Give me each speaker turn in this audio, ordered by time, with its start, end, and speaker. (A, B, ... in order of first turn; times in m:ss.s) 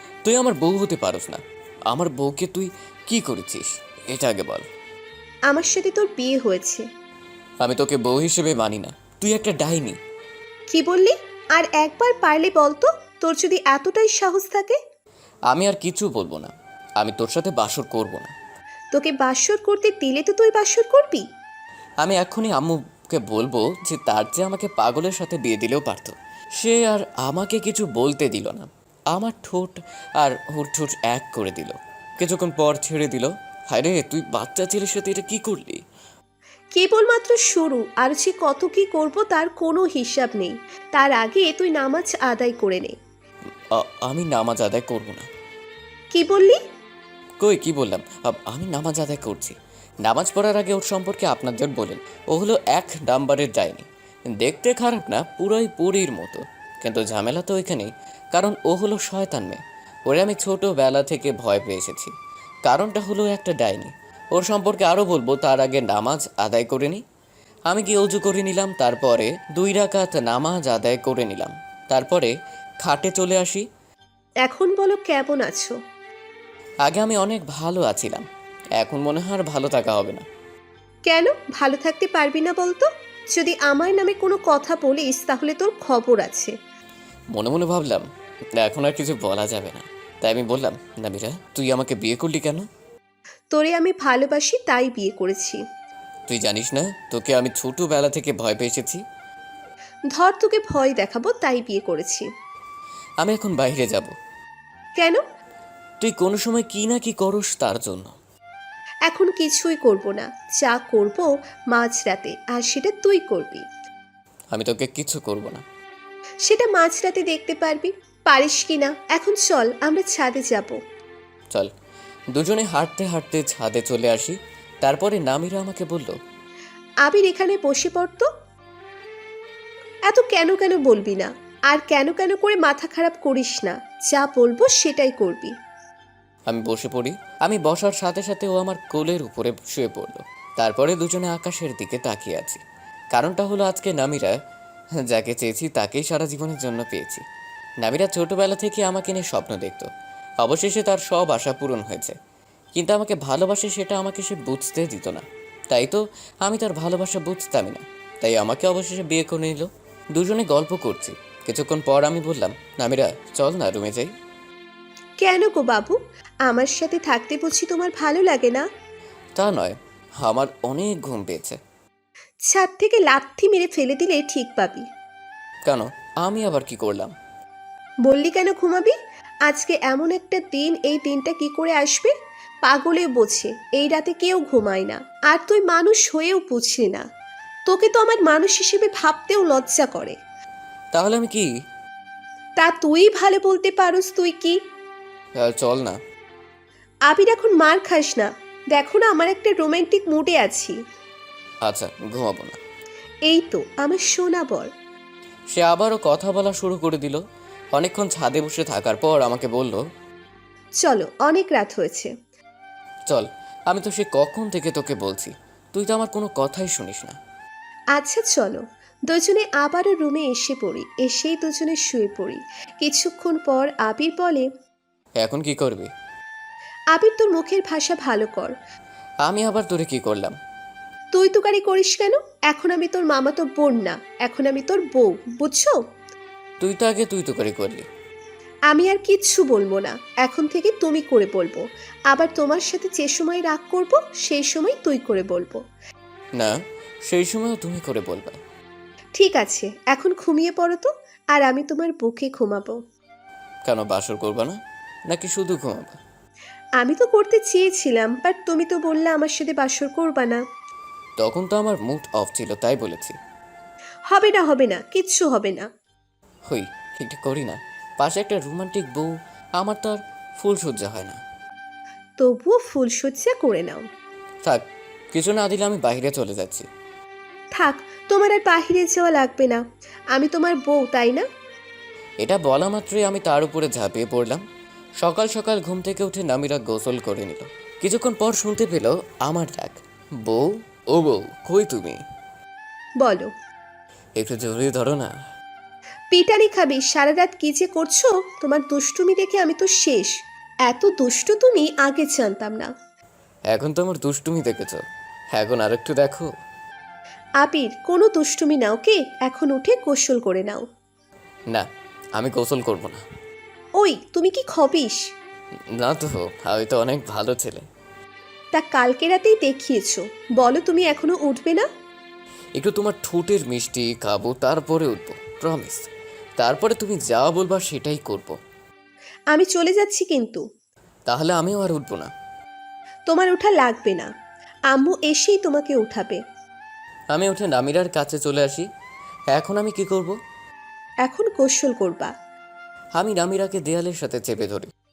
0:00.2-0:04.7 A
0:05.5-0:06.8 B
0:07.6-0:10.0 A
0:10.7-0:14.8 B
0:15.5-0:18.3 A
0:18.9-0:21.2 B
0:22.0-0:35.8 A
0:36.7-0:42.9 B
0:43.7-0:45.3 A
0:46.1-0:46.6 B
0:47.4-0:53.9 A
0:54.4-1:02.1 A
1:02.6-1:07.0 A
1:07.7-1:12.3 A
1:12.8-1:13.6 A
1:14.4-1:15.8 B
1:16.8-1:18.3 A
1:18.8-1:20.2 A
1:21.1-1:26.5 B
1:27.3-1:28.1 A
1:28.6-1:32.7 A
1:33.5-1:35.6 B
1:36.3-1:39.0 A
1:40.1-1:42.3 B
1:43.2-1:44.1 A
1:46.0-1:48.1 A
1:49.1-1:53.6 B
1:54.5-1:55.6 A
1:56.5-2:00.8 B
2:02.3-2:06.2 A
2:07.0-2:08.3 B
2:10.1-2:15.5 B
2:16.5-2:22.6 A
2:23.1-2:24.4 A
2:25.1-2:27.2 A
2:27.8-2:29.9 A
2:30.4-2:32.2 A
2:32.8-2:44.1 A
2:45.2-2:48.7 B
2:49.4-2:51.6 A
2:52.5-2:54.8 B
2:55.7-2:57.1 A
2:58.0-2:58.9 B
2:59.5-3:02.1 B
3:02.6-3:07.0 B
3:07.7-3:10.2 B
3:10.9-3:11.5 A
3:12.6-3:14.6 B
3:15.4-3:16.0 A
3:17.1-3:20.8 B
3:21.6-3:22.6 A
3:23.3-3:24.7 B
3:25.5-3:27.2 A
3:27.7-3:29.8 A
3:30.8-3:32.1 B
3:33.1-3:37.2 A
3:38.0-3:44.5 B
3:45.2-3:45.9 A
3:46.9-3:48.5 B
3:49.2-3:50.4 A
3:51.1-3:55.8 B
3:56.6-3:57.9 A
3:58.7-4:05.6 B
4:06.4-4:08.4 A
4:09.2-4:12.8 B
4:13.6-4:16.0 A
4:16.8-4:20.4 B
4:21.2-4:23.2 A
4:24.1-4:25.7 B
4:26.5-4:31.2 A
4:32.2-4:33.8 B
4:34.4-4:36.7 A
4:37.6-4:39.6 B
4:40.1-4:41.2 B
4:42.2-4:44.4 A
4:45.0-4:52.0 A
4:53.0-4:53.3 B
4:54.2-4:55.1 A
4:56.1-5:00.2 B
5:00.7-5:02.7 B
5:03.5-5:04.8 A
5:05.3-5:06.3 A
5:07.4-5:10.6 B
5:12.2-5:13.0 A
5:13.8-5:15.0 B
5:15.8-5:17.6 A
5:18.5-5:21.7 B
5:22.6-5:25.9 A
5:26.4-5:28.4 A
5:29.3-5:30.4 B
5:31.1-5:32.1 A
5:33.1-5:34.1 B
5:34.7-5:36.2 B
5:37.1-5:38.7 A
5:39.3-5:40.2 A
5:41.0-5:42.1 B
5:43.0-5:44.7 A